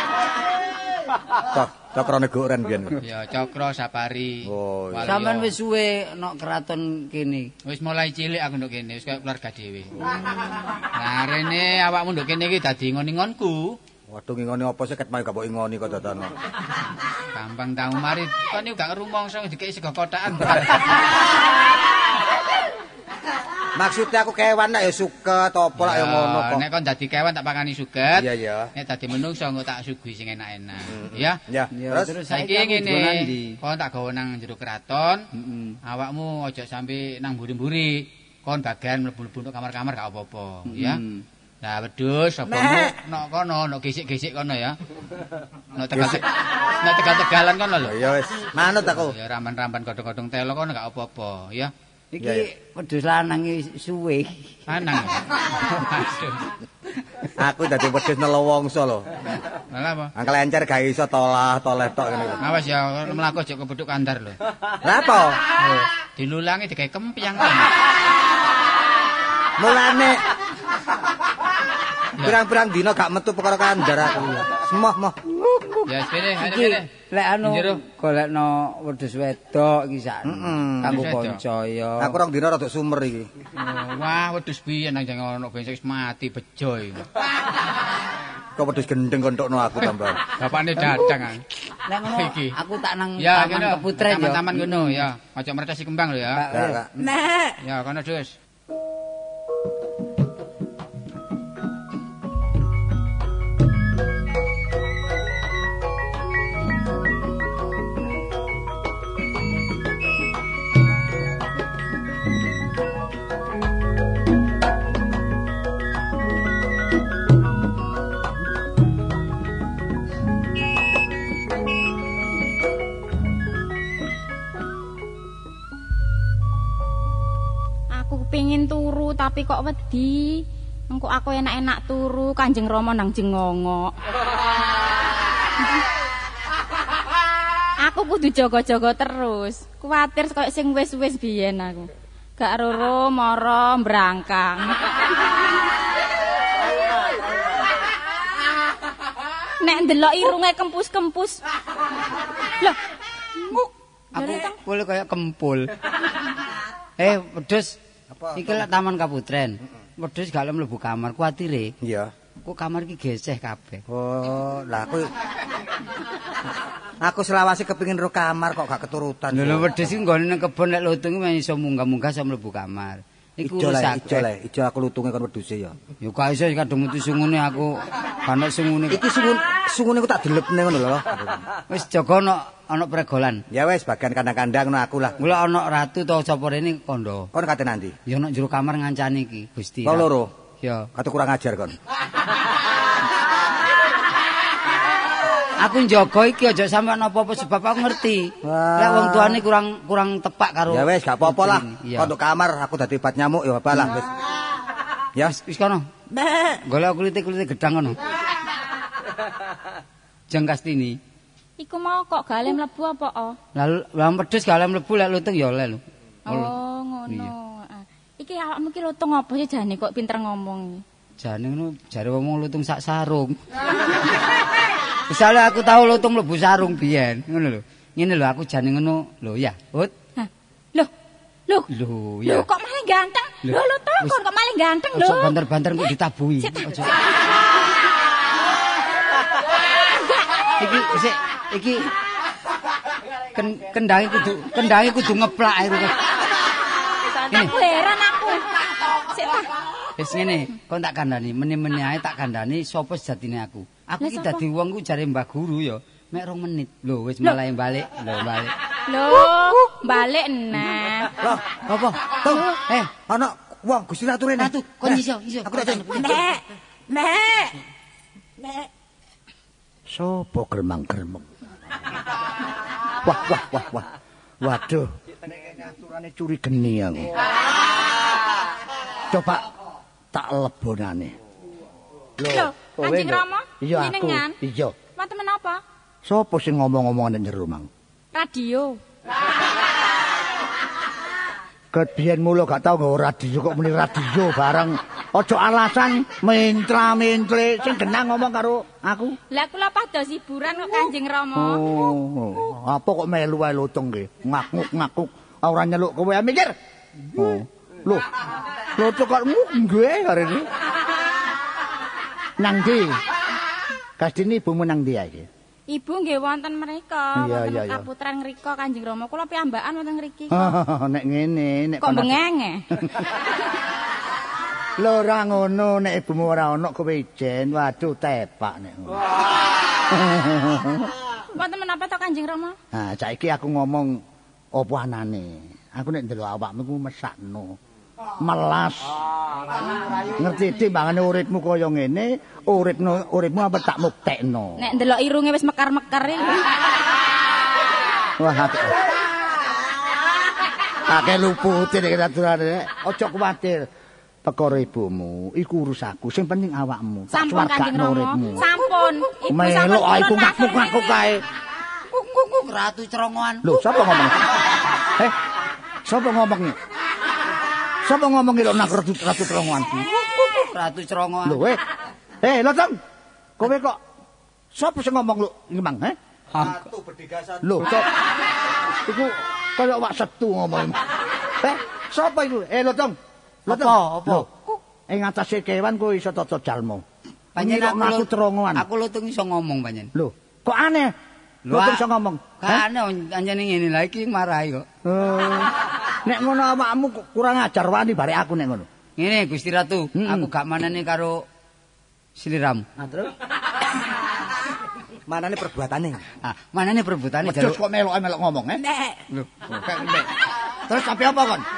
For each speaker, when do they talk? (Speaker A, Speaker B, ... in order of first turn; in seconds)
Speaker A: 1.5-3.0, 4.5-5.2, 14.1-16.3, 23.8-26.6, 28.1-28.7, 30.9-32.1, 45.9-46.2, 47.8-49.1, 52.2-52.5, 57.4-59.1, 60.1-62.4, 64.8-65.4, 69.6-70.2, 72.2-75.2, 80.2-81.1, 82.0-83.3, 88.5-90.2, 96.5-97.5, 158.1-158.6, 161.8-162.1, 163.9-165.1, 167.0-169.7, 173.4-175.8, 178.9-181.5, 183.5-185.2, 187.3-187.9, 189.8-190.3, 190.9-191.8, 198.4-199.4, 200.7-204.1, 261.2-261.6, 262.1-262.5, 263.1-267.4, 376.3-377.8, 405.1-406.0
Speaker B: 3.0-5.5, 7.6-9.9, 10.9-13.8, 17.3-21.0, 25.8-31.4, 32.3-35.3, 35.8-41.0, 41.6-44.8, 45.7-47.9, 49.0-51.7, 54.7-56.5, 59.7-60.1, 62.4-64.4, 65.6-67.7, 75.9-76.9, 77.4-77.8, 80.9-81.4, 83.6-87.0, 90.2-91.4, 92.0-92.5, 93.2-96.4, 97.6-98.3
Speaker C: 5.0-7.5, 31.7-33.6, 35.3-35.8, 40.7-41.2, 52.1-54.6, 75.3-82.2, 91.9-95.1, 96.3-96.8, 154.1-155.7, 157.0-157.8, 158.3-161.7, 162.4-163.8, 169.3-174.3, 176.0-179.0, 181.7-183.4, 185.2-187.3, 188.1-190.1, 190.6-190.9, 195.6-202.1, 205.3-205.9, 206.4-208.0, 210.3-211.0, 213.5-216.5, 221.2-223.4, 225.1-229.9, 231.7-232.5, 233.4-234.2, 234.9-236.9, 240.6-241.9, 243.3-246.0, 247.3-247.5, 250.0-258.5, 261.6-262.9, 264.4-266.2, 361.9-363.6, 369.8-371.4, 383.5-384.6, 387.4-389.9, 391.4-391.8, 392.4-394.7, 399.0-401.2, 402.2-402.7, 406.2-407.6
Speaker D: 127.9-133.9, 137.8-144.8, 149.6-151.4, 153.4-154.6, 211.6-213.4, 216.2-220.8, 230.2-230.9, 232.2-235.4, 236.4-236.9, 239.9-240.4, 247.3-249.5, 254.0-254.4, 258.9-261.1, 282.2-284.4, 285.0-285.6, 288.1-288.8, 299.3-301.9, 315.7-320.5, 321.8-322.6, 331.4-332.6, 344.6-346.4, 357.1-361.1
Speaker E: 269.9-271.3, 273.0-273.9, 274.4-277.1, 279.1-279.4, 280.1-281.1, 282.2-284.7, 286.0-287.7, 291.7-299.2, 301.3-306.5, 307.1-308.1, 308.8-310.5, 312.4-313.0, 314.0-315.3, 317.1-317.9, 320.3-322.2, 324.8-329.1, 329.9-330.9, 332.7-334.0, 334.5-337.5, 338.2-339.0, 340.1-344.6, 348.2-348.8, 350.9-353.7, 354.2-358.5, 359.3-361.2, 363.4-364.3, 365.9-366.6, 367.8-369.8, 371.2-371.6, 372.2-372.8, 373.4-373.8, 374.5-376.0, 377.4-377.9, 378.9-380.8, 381.4-384.3, 384.9-386.8, 387.4-388.6, 389.9-390.9, 391.5-392.6, 394.8-395.5, 396.0-398.6, 399.9-400.3, 402.8-403.1, 407.2-408.6, 409.5-411.4